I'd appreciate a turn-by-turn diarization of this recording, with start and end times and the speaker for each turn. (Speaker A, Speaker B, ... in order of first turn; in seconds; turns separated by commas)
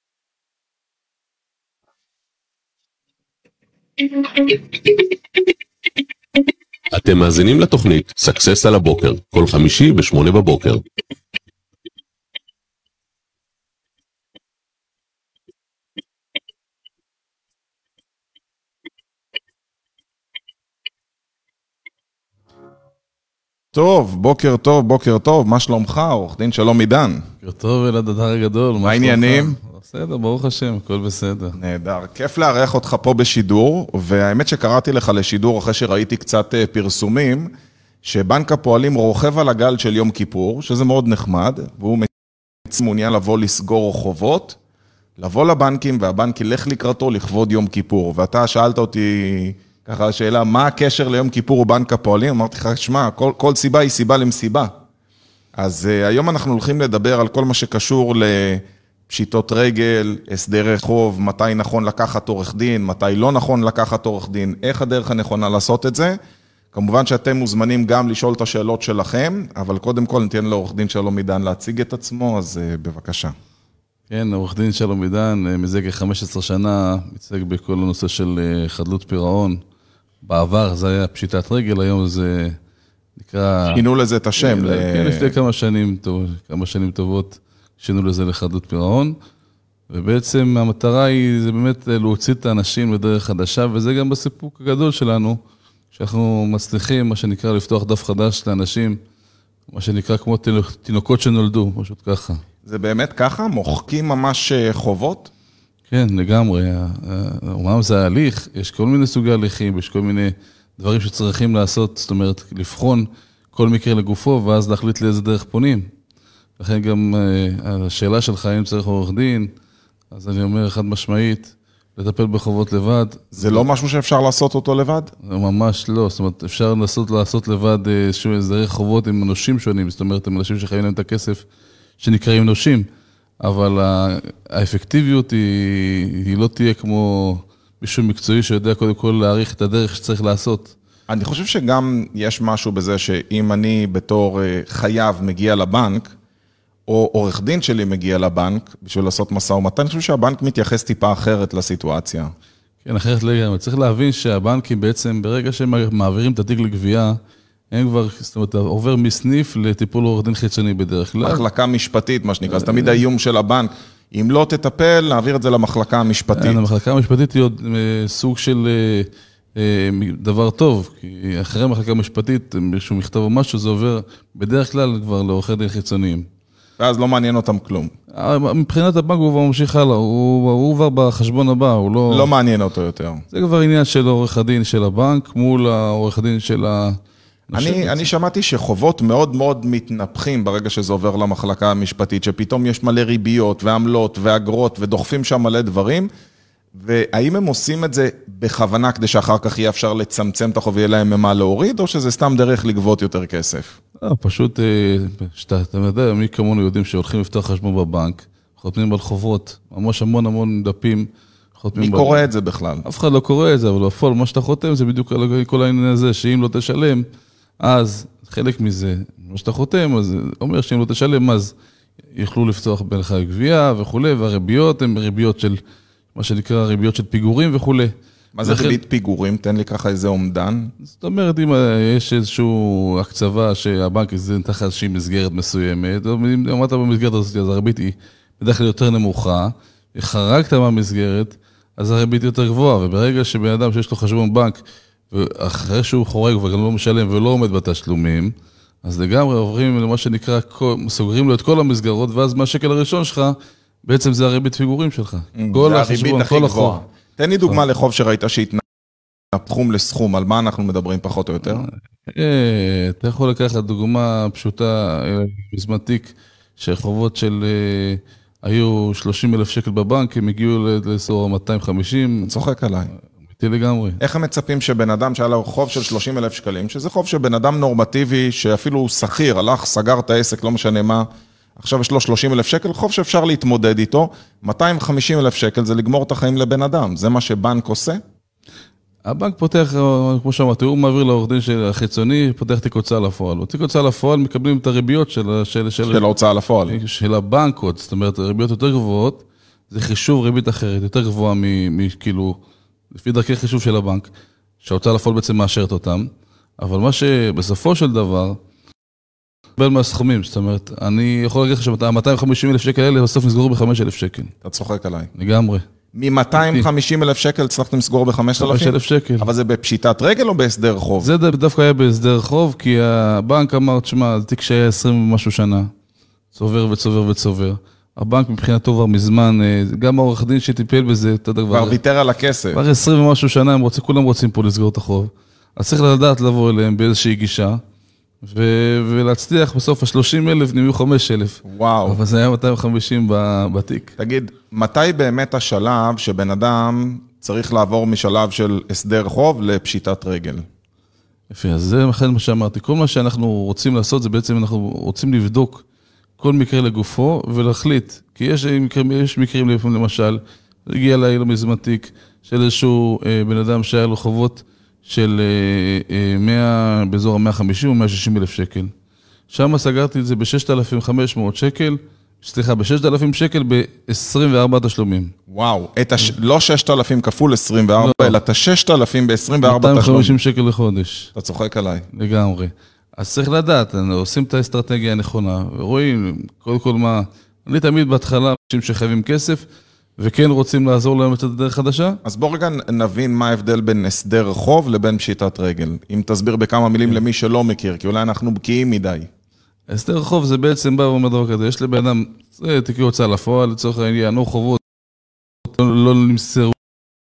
Speaker A: 4.3-4.7, Speaker A: 6.9-10.8, Speaker B: 23.7-27.2, Speaker C: 27.4-31.6, Speaker B: 28.8-29.6, Speaker B: 31.6-37.5, Speaker B: 38.0-42.1, Speaker B: 42.6-44.6, Speaker B: 45.2-54.7, Speaker B: 55.5-66.2, Speaker B: 66.7-73.3, Speaker C: 74.1-79.6, Speaker C: 80.2-82.6, Speaker C: 83.2-83.8, Speaker B: 83.7-85.3, Speaker C: 84.4-89.1, Speaker C: 89.9-95.4, Speaker C: 95.9-99.0, Speaker C: 99.7-102.4, Speaker B: 102.6-105.3, Speaker C: 105.9-115.9, Speaker C: 116.6-119.5, Speaker C: 120.1-123.6, Speaker B: 123.3-125.1, Speaker C: 125.2-131.4, Speaker C: 132.0-132.9, Speaker C: 133.4-140.7, Speaker B: 141.1-146.1, Speaker B: 146.9-152.3, Speaker C: 152.8-157.2, Speaker C: 157.7-161.4, Speaker B: 161.2-166.6, Speaker C: 162.5-163.0, Speaker C: 166.3-176.3, Speaker B: 176.8-177.9, Speaker C: 178.1-182.3, Speaker B: 182.1-183.2, Speaker C: 183.3-187.0, Speaker C: 187.5-188.1, Speaker B: 187.5-196.1, Speaker B: 196.7-203.8, Speaker C: 204.0-212.2, Speaker B: 211.8-212.8, Speaker C: 212.8-217.1, Speaker C: 217.6-221.5, Speaker C: 222.1-225.6, Speaker C: 226.1-227.9, Speaker B: 228.3-230.7, Speaker C: 228.4-228.8, Speaker C: 230.8-244.6, Speaker C: 245.1-256.8, Speaker B: 255.3-258.6, Speaker B: 259.3-261.7, Speaker C: 261.4-272.3, Speaker B: 272.2-272.9, Speaker C: 273.3-274.0, Speaker B: 274.0-281.1, Speaker B: 281.6-288.0, Speaker C: 289.0-296.0, Speaker B: 295.9-296.8, Speaker C: 296.7-302.4, Speaker C: 302.9-304.1, Speaker C: 304.6-308.4, Speaker C: 309.6-314.3, Speaker B: 314.4-315.1, Speaker C: 315.1-315.6, Speaker B: 315.9-321.1, Speaker C: 316.4-316.6, Speaker C: 318.4-319.3, Speaker C: 321.0-325.7, Speaker C: 326.3-331.8, Speaker B: 331.5-332.6, Speaker C: 332.5-337.6, Speaker C: 338.2-343.9, Speaker B: 341.4-342.0, Speaker B: 344.0-350.4, Speaker C: 351.3-355.6, Speaker C: 356.2-368.7, Speaker C: 369.3-375.1, Speaker B: 375.3-380.2, Speaker C: 377.8-378.1, Speaker C: 379.4-381.1, Speaker B: 381.1-381.9, Speaker C: 381.9-389.4, Speaker C: 390.0-392.0, Speaker B: 392.0-399.1, Speaker C: 399.7-404.6, Speaker C: 405.4-406.6